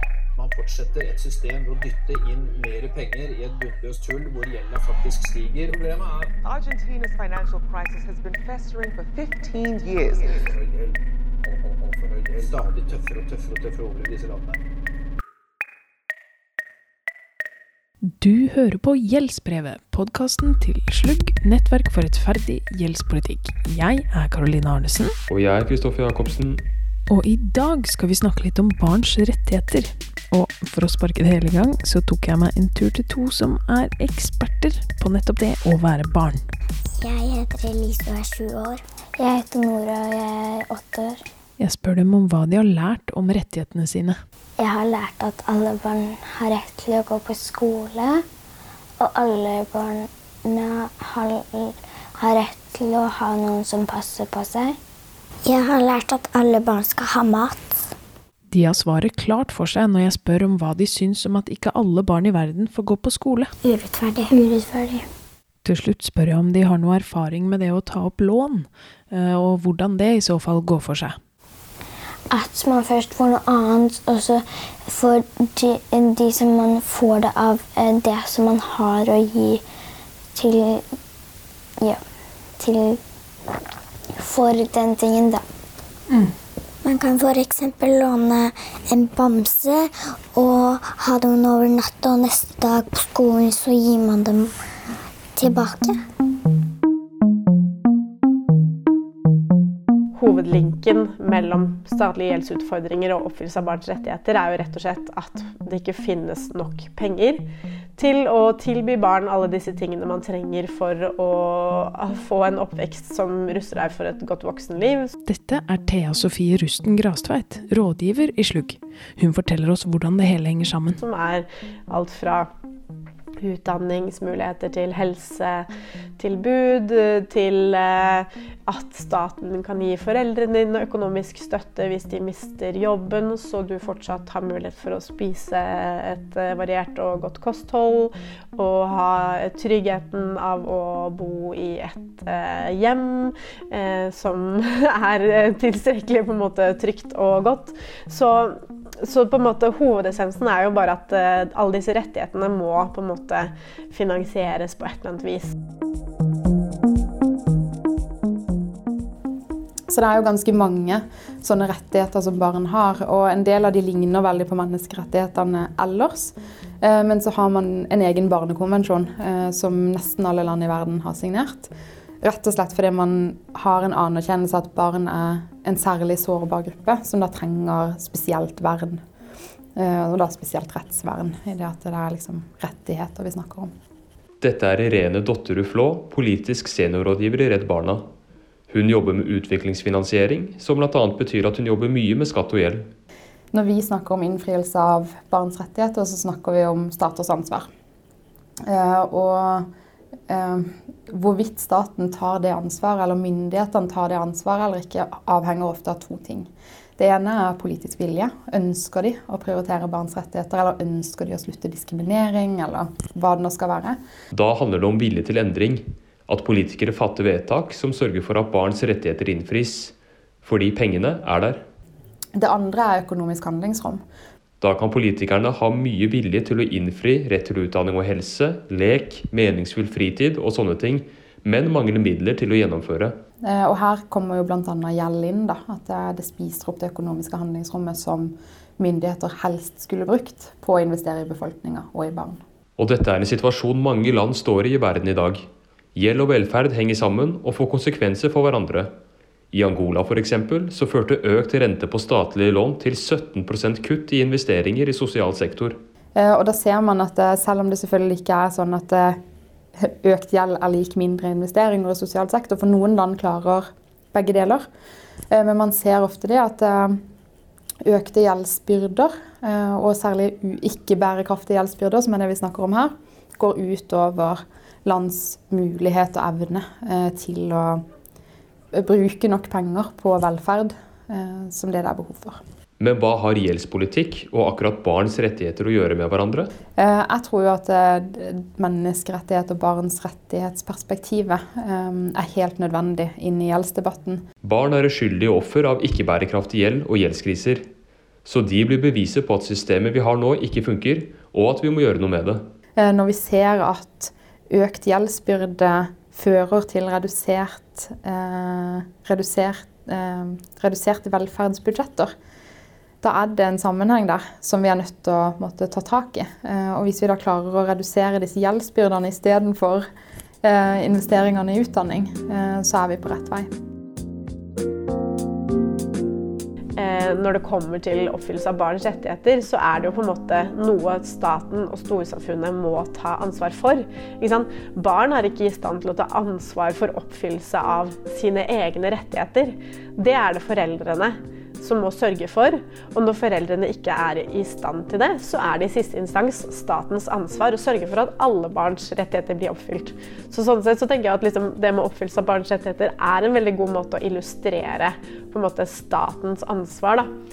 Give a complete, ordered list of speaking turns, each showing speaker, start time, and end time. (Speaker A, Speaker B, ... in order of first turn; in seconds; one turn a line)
Speaker A: 0.4-6.3
Speaker B: 6.4-10.5
Speaker A: 10.2-14.6
Speaker C: 18.1-25.1
Speaker D: 25.3-26.6
Speaker C: 27.1-36.4
Speaker E: 37.0-41.2
Speaker C: 41.6-44.2
Speaker E: 44.6-48.2
Speaker E: 49.0-54.8
Speaker E: 55.5-57.8
Speaker C: 58.5-63.5
Speaker E: 63.6-65.0
Speaker C: 65.6-71.2
Speaker E: 72.3-79.6
Speaker E: 80.3-80.8
Speaker E: 82.6-83.0
Speaker E: 84.2-85.4
Speaker E: 86.8-94.5
Speaker E: 95.4-96.0
Speaker F: 100.2-107.5
Speaker F: 108.0-115.1
Speaker C: 115.2-121.0
Speaker F: 121.0-122.5
Speaker F: 123.4-125.7
Speaker F: 126.2-155.5
Speaker G: 159.9-171.7
Speaker G: 172.2-179.0
Speaker G: 179.8-183.7
Speaker D: 184.4-188.1
Speaker D: 188.7-192.9
Speaker G: 193.5-197.7
Speaker G: 198.7-199.7
Speaker G: 200.3-214.0
Speaker D: 214.3-221.6
Speaker G: 222.4-224.0
Speaker D: 224.6-233.1
Speaker G: 233.4-242.4
Speaker D: 242.8-245.4
Speaker D: 245.9-248.9
Speaker D: 249.5-255.8
Speaker G: 256.2-259.2
Speaker G: 259.8-264.6
Speaker G: 265.3-267.0
Speaker G: 267.9-277.8
Speaker G: 278.7-282.4
Speaker D: 282.8-286.5
Speaker G: 286.8-294.2
Speaker D: 294.4-297.6
Speaker D: 298.2-302.4
Speaker G: 302.8-312.1
Speaker G: 313.0-319.9
Speaker G: 320.4-323.5
Speaker F: 326.8-357.1